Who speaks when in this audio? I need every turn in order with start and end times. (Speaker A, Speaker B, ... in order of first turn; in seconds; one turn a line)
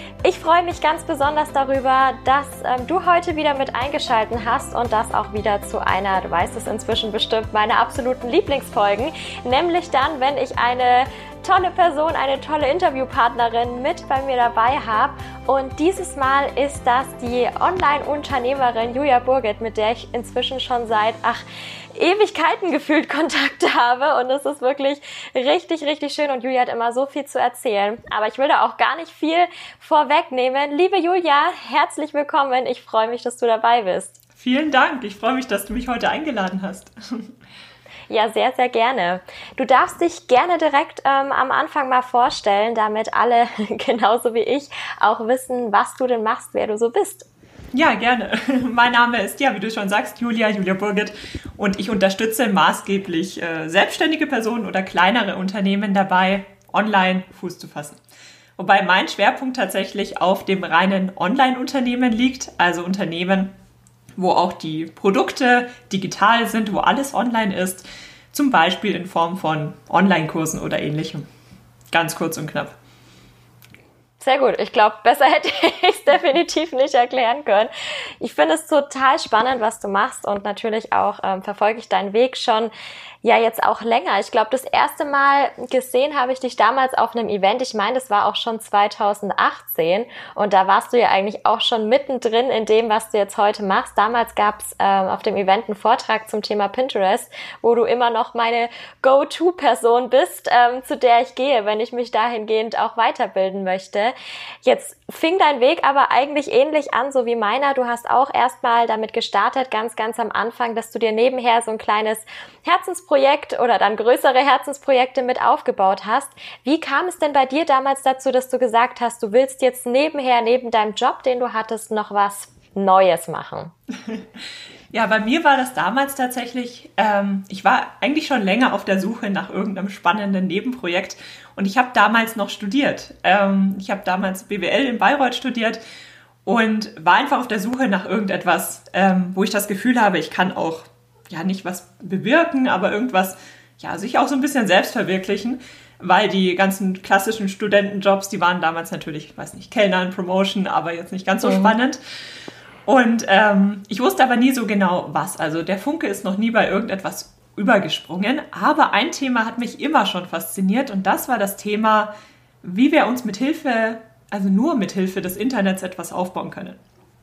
Speaker A: 0.2-21.4
Speaker A: 21.9-34.2
Speaker B: 34.4-37.3
Speaker A: 38.1-47.3
Speaker B: 47.7-58.0
Speaker B: 58.6-63.5
Speaker B: 64.2-71.3
Speaker B: 71.9-72.8
Speaker A: 74.2-77.7
Speaker A: 78.2-82.7
Speaker A: 83.2-104.1
Speaker A: 104.7-123.7
Speaker B: 124.9-135.8
Speaker B: 136.4-152.0
Speaker A: 151.4-151.8
Speaker B: 152.9-162.1
Speaker B: 162.6-166.8